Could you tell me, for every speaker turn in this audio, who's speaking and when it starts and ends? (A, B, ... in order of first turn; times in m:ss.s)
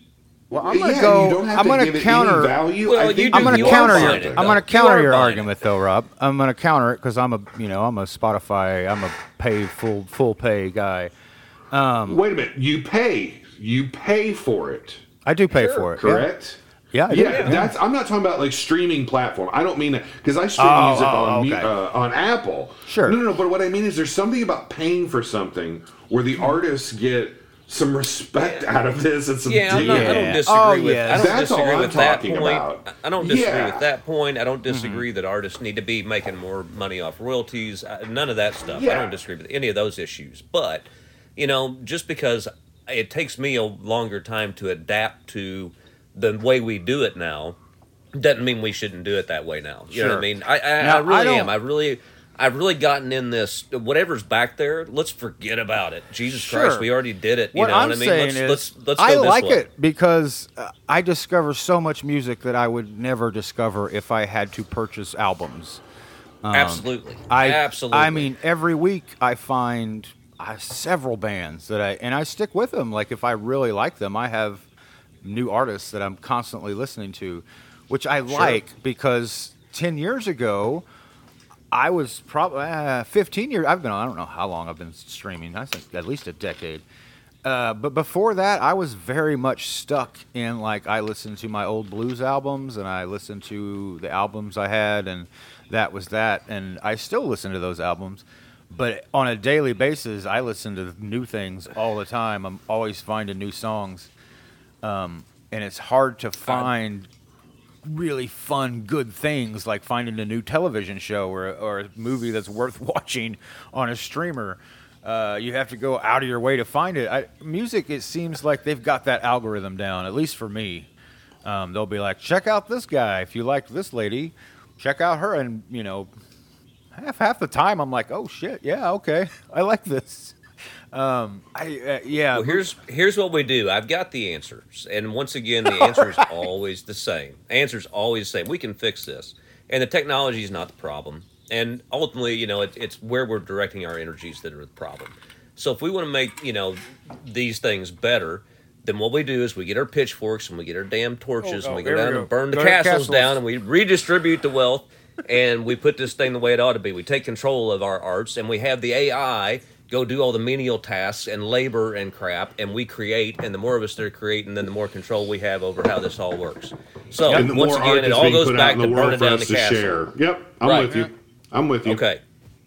0:00.5-0:02.6 A
0:00.5-0:04.6 B
0:02.8-0:05.5 C
0:03.3-0:11.1 A
0:11.7-0:12.2 A
0:12.1-0:15.0 B
0:15.2-0:16.3 A
0:15.5-0:15.9 C
0:16.0-0:30.4 B
0:16.9-0:17.7 A
0:17.2-0:17.5 C
0:20.6-0:21.7 A
0:22.9-0:23.2 A
0:28.4-0:28.7 C
0:29.4-0:47.6 C
0:29.7-0:31.4 A
0:31.1-0:33.9 B
0:34.7-0:35.0 A
0:38.7-0:39.2 B
0:48.1-0:59.6 C
0:49.9-0:50.2 A
0:50.8-0:51.5 A
0:56.3-0:56.9 A
0:57.5-1:05.8 A
1:06.4-1:14.6 A
1:06.5-1:08.3 C
1:15.2-1:20.8 A
1:18.3-1:18.6 B
1:21.7-1:26.8 A
1:27.4-1:44.1 A
1:44.8-1:47.1 A
1:46.4-1:46.7 C
1:47.8-2:00.9 A
2:01.4-2:06.1 A
2:06.9-2:10.4 A
2:10.9-2:12.7 A
2:12.3-2:50.0 C
2:15.7-2:16.3 A
2:31.4-2:33.4 A
2:47.2-2:52.0 B
2:50.6-2:50.9 C
2:51.8-2:52.2 C